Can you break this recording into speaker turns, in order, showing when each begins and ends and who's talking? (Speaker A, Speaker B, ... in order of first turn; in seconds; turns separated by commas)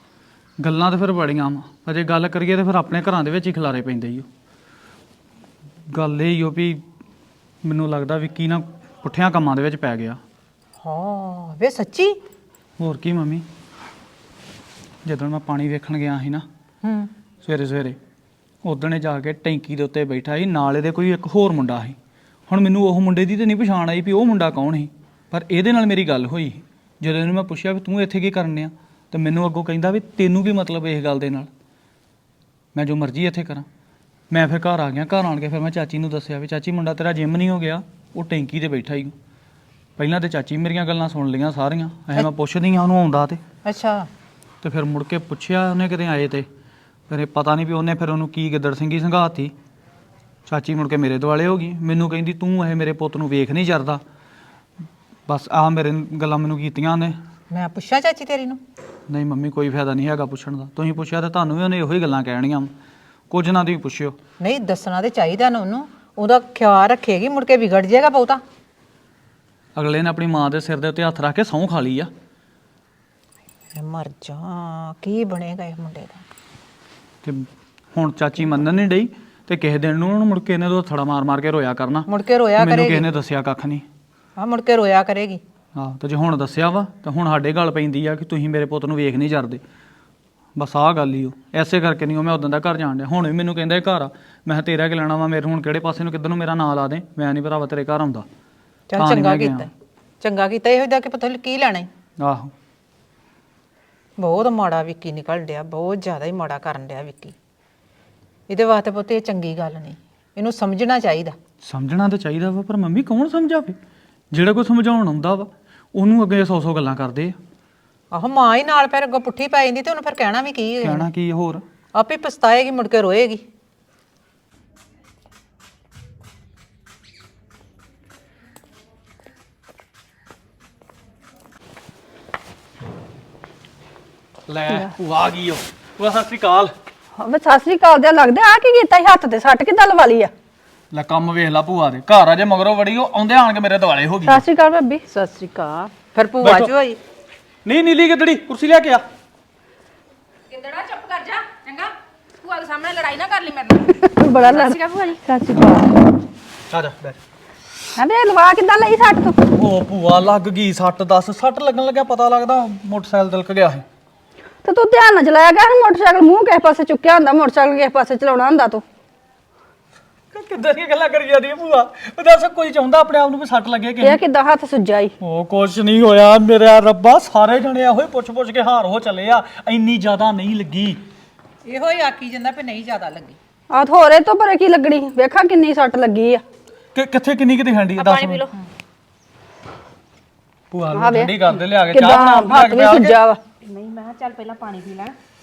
Speaker A: 0.6-4.3, Speaker A: 5.9-6.8, Speaker A: 7.6-10.2, Speaker B: 10.8-12.2, Speaker A: 12.8-13.4, Speaker A: 15.1-16.4, Speaker B: 16.8-17.1, Speaker A: 17.4-18.0, Speaker A: 18.6-22.0, Speaker A: 22.5-31.5, Speaker A: 32.8-33.7, Speaker A: 34.3-39.1, Speaker A: 40.0-43.4, Speaker B: 43.6-44.1, Speaker A: 44.6-46.5, Speaker A: 47.1-49.5, Speaker A: 50.5-54.0, Speaker A: 55.3-57.2, Speaker B: 57.5-58.6, Speaker A: 59.1-62.7, Speaker A: 63.3-64.2, Speaker B: 64.4-68.4, Speaker A: 69.8-72.1, Speaker B: 73.8-76.2, Speaker A: 77.2-83.8, Speaker B: 82.1-83.1, Speaker B: 84.4-85.4, Speaker A: 85.8-89.6, Speaker A: 90.6-98.3, Speaker B: 98.9-99.7, Speaker A: 99.0-99.7, Speaker B: 100.2-101.9, Speaker A: 102.2-102.5, Speaker B: 104.2-107.3, Speaker B: 108.5-111.4, Speaker A: 111.6-113.8, Speaker A: 114.3-117.4, Speaker B: 118.1-121.1, Speaker A: 120.8-121.6, Speaker B: 121.9-123.5, Speaker A: 134.5-136.7, Speaker C: 137.2-140.3, Speaker A: 140.9-144.4, Speaker C: 144.3-145.0, Speaker B: 145.1-147.0, Speaker A: 146.4-146.7, Speaker A: 147.7-149.0, Speaker D: 150.5-155.2, Speaker C: 154.0-156.0, Speaker A: 156.7-157.2, Speaker C: 158.0-159.4, Speaker A: 159.5-163.8, Speaker C: 164.7-168.8, Speaker A: 170.3-174.2, Speaker C: 174.0-175.1, Speaker A: 175.2-181.0, Speaker B: 181.7-183.4, Speaker C: 183.7-186.4, Speaker A: 186.9-188.4, Speaker D: 188.0-188.5, Speaker A: 190.7-193.2, Speaker C: 190.9-193.4, Speaker D: 193.6-195.2